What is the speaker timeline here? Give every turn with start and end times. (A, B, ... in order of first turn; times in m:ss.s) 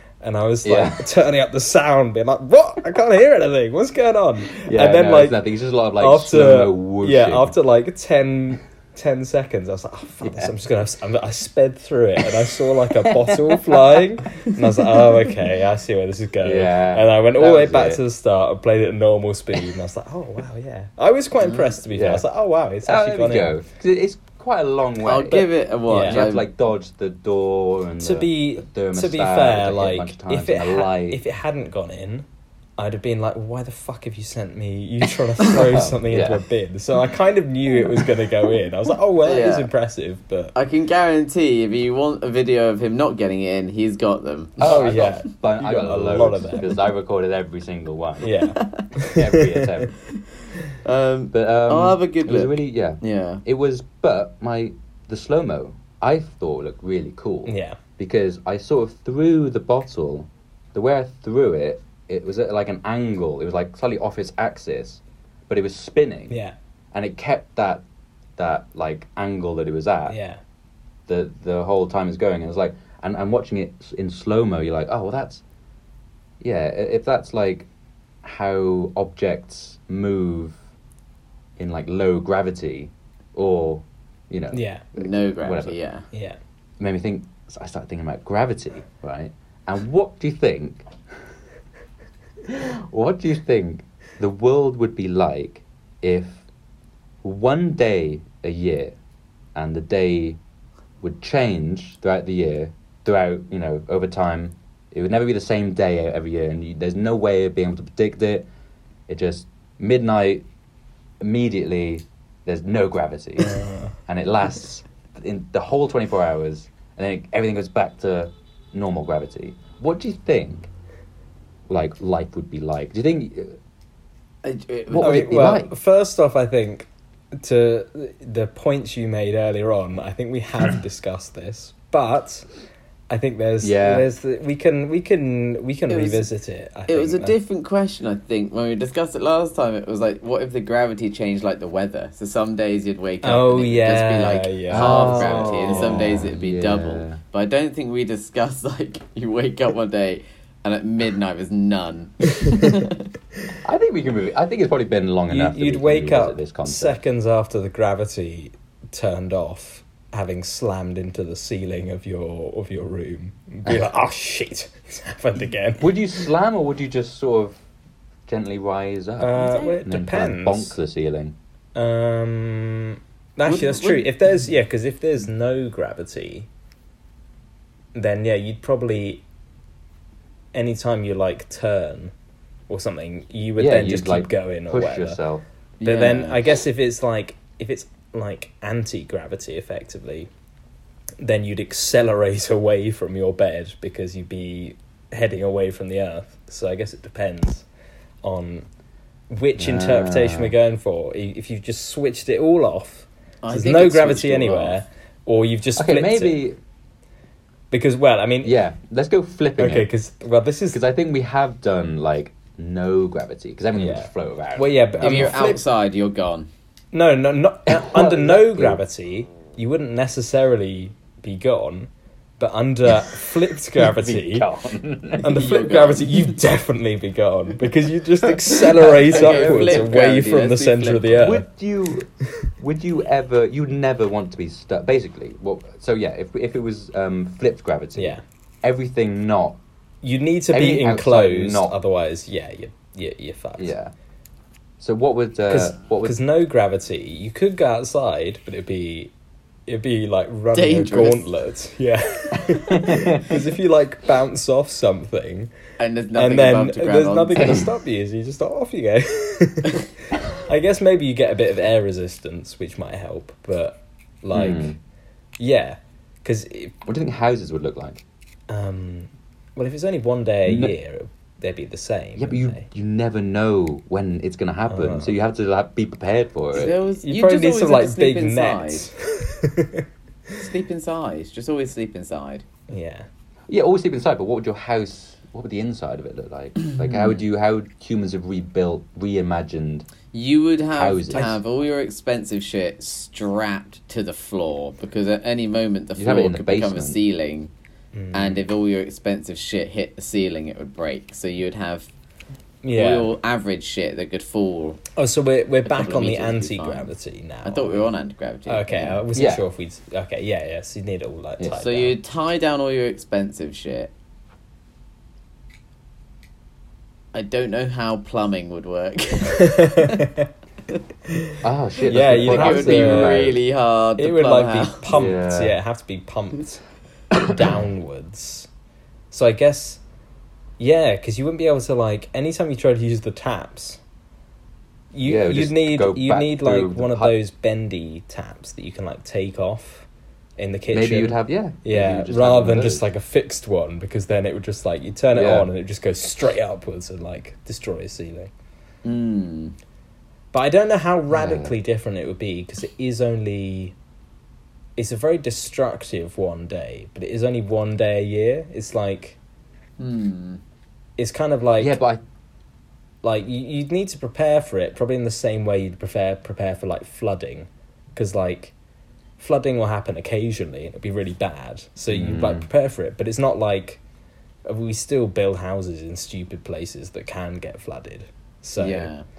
0:00.2-0:05.4 A
0:00.6-0:01.1 B
0:04.6-0:07.6 B
0:06.0-0:23.6 A
0:10.2-0:10.5 B
0:16.4-0:18.0 B
0:21.4-0:21.7 C
0:21.9-0:22.2 B
0:22.8-0:31.2 B
0:25.0-0:26.5 C
0:25.9-0:26.2 A
0:28.0-0:32.2 A
0:32.8-0:40.5 A
0:35.5-0:36.4 B
0:39.2-0:39.7 C
0:40.5-0:45.1 C
0:44.6-0:48.3 B
0:44.6-0:46.7 A
0:48.2-0:49.4 A
0:48.6-0:48.9 C
0:49.1-0:50.0 B
0:50.7-0:53.4 C
0:51.3-1:06.4 B
0:57.5-0:57.8 A
1:06.3-1:06.5 A
1:06.9-1:07.8 B
1:08.4-1:10.2 B
1:10.1-1:10.4 A
1:11.1-1:15.4 B
1:16.4-1:17.7 B
1:18.2-1:20.6 B
1:21.6-1:25.8 B
1:24.5-1:24.8 A
1:25.0-1:26.0 C
1:26.1-1:26.4 A
1:26.8-1:30.9 B
1:32.4-1:36.4 B
1:37.2-1:39.0 B
1:39.5-1:40.4 B
1:41.0-1:48.5 B
1:49.1-1:50.4 B
1:51.2-2:00.7 B
1:53.4-1:53.9 A
2:01.7-2:03.6 B
2:04.4-2:05.3 C
2:04.9-2:05.7 B
2:05.0-2:12.5 A
2:13.1-2:17.3 A
2:13.6-2:14.1 B
2:15.9-2:16.3 C
2:16.9-2:33.1 C
2:23.2-2:26.2 A
2:24.7-2:27.2 B
2:33.6-2:37.0 B
2:35.3-2:45.9 A
2:45.8-2:47.6 B
2:48.3-2:51.4 B
2:49.2-2:50.8 A
2:49.4-2:49.8 C
2:51.7-2:56.5 A
2:53.4-2:54.1 C
2:57.9-2:59.2 A
3:00.5-3:02.1 A
3:02.7-3:05.2 A
3:03.6-3:05.4 B
3:05.8-3:06.4 C
3:05.8-3:10.3 A
3:11.2-3:17.6 A
3:18.2-3:18.7 A
3:19.3-3:26.4 A
3:19.6-3:20.5 B
3:23.4-3:24.8 C
3:25.8-3:26.6 B
3:27.7-3:28.6 A
3:28.4-3:29.9 B
3:29.6-3:30.8 A
3:30.7-3:35.4 B
3:33.7-3:35.6 A
3:35.0-3:36.5 C
3:36.9-3:44.5 A
3:37.7-3:38.8 B
3:43.7-3:45.4 B
3:45.2-3:51.4 A
3:45.3-3:46.4 C
3:48.7-3:51.2 C
3:48.8-3:49.9 B
3:51.1-3:59.6 B
3:58.0-3:58.2 A
4:00.0-4:03.7 A
4:00.5-4:01.8 B
4:03.6-4:03.9 B
4:04.8-4:06.2 B
4:05.5-4:09.1 A
4:09.7-4:15.5 A
4:10.5-4:11.2 C
4:12.5-4:13.3 B
4:15.8-4:17.6 C
4:16.1-4:24.8 A
4:17.4-4:17.7 B
4:24.3-4:24.8 B
4:25.4-4:26.7 A
4:26.8-4:28.0 B
4:28.5-4:32.6 A
4:30.4-4:30.7 B
4:32.2-4:36.7 B
4:34.7-4:35.1 A
4:36.5-4:38.9 C
4:36.9-4:40.4 A
4:40.4-4:42.4 C
4:42.7-4:43.1 A
4:43.5-4:49.9 B
4:46.8-4:47.2 C
4:50.1-4:57.5 C
4:50.7-4:51.4 B
4:56.0-4:57.0 B
4:57.9-4:58.4 A
4:58.1-5:01.9 C
5:02.6-5:03.1 A
5:02.7-5:04.8 C
5:05.0-5:07.9 A
5:05.6-5:06.9 C
5:07.4-5:09.0 C
5:08.5-5:12.0 A
5:09.1-5:09.4 B
5:11.5-5:13.9 C
5:17.1-5:20.1 C
5:19.4-5:20.3 A
5:21.1-5:23.2 A
5:21.4-5:23.4 B
5:22.1-5:24.8 C
5:24.0-5:26.6 A
5:24.9-5:25.6 B
5:27.2-5:27.6 B
5:27.2-5:28.5 A
5:29.1-5:29.8 A
5:30.6-5:33.8 A
5:34.9-5:39.9 A
5:35.0-5:37.2 B
5:40.4-5:48.3 A
5:40.7-5:42.9 B
5:45.1-5:45.5 B
5:48.8-5:49.5 C
5:50.3-5:53.7 A
5:51.1-5:51.5 B
5:54.8-5:59.2 A
5:59.8-6:00.4 C
6:01.0-6:01.8 A
6:01.6-6:02.0 B
6:03.0-6:08.5 A
6:09.2-6:13.8 A
6:11.9-6:12.5 B
6:14.4-6:18.9 A
6:18.6-6:19.0 C